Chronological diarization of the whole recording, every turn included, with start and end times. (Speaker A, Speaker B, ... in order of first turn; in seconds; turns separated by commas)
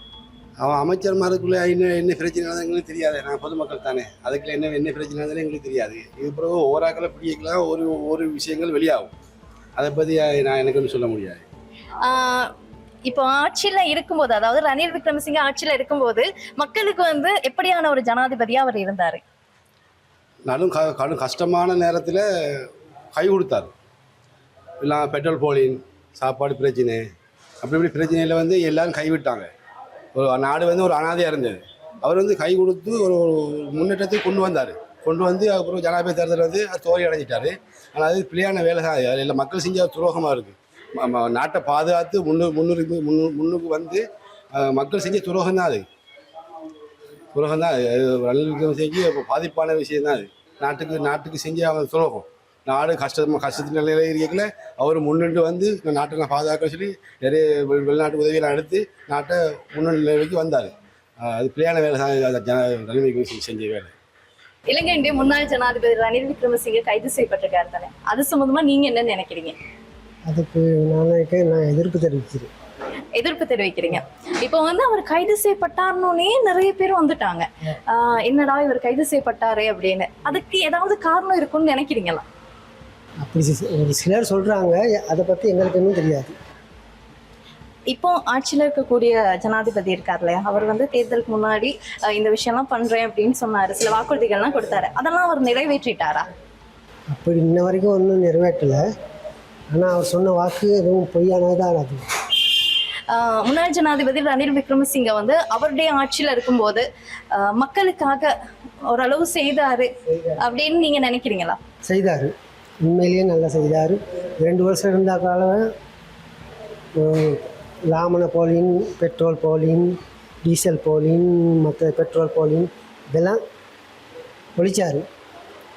Speaker A: 0.6-9.1, Speaker A: 9.8-11.4, Speaker B: 12.0-12.5, Speaker B: 13.0-19.2, Speaker A: 20.5-22.6, Speaker A: 23.1-23.7, Speaker A: 24.8-27.0, Speaker A: 27.6-29.5, Speaker A: 30.1-44.0, Speaker A: 44.5-45.8, Speaker A: 47.3-63.9, Speaker B: 64.7-69.5, Speaker C: 70.3-72.5, Speaker B: 73.2-82.2, Speaker C: 83.2-86.3, Speaker B: 87.9-96.2, Speaker C: 97.1-98.8, Speaker C: 99.7-102.0, Speaker B: 103.1-108.3, Speaker B: 108.9-109.9, Speaker B: 110.4-111.6, Speaker C: 111.9-112.3, Speaker C: 112.8-115.7, Speaker C: 117.0-123.4, Speaker C: 124.5-125.0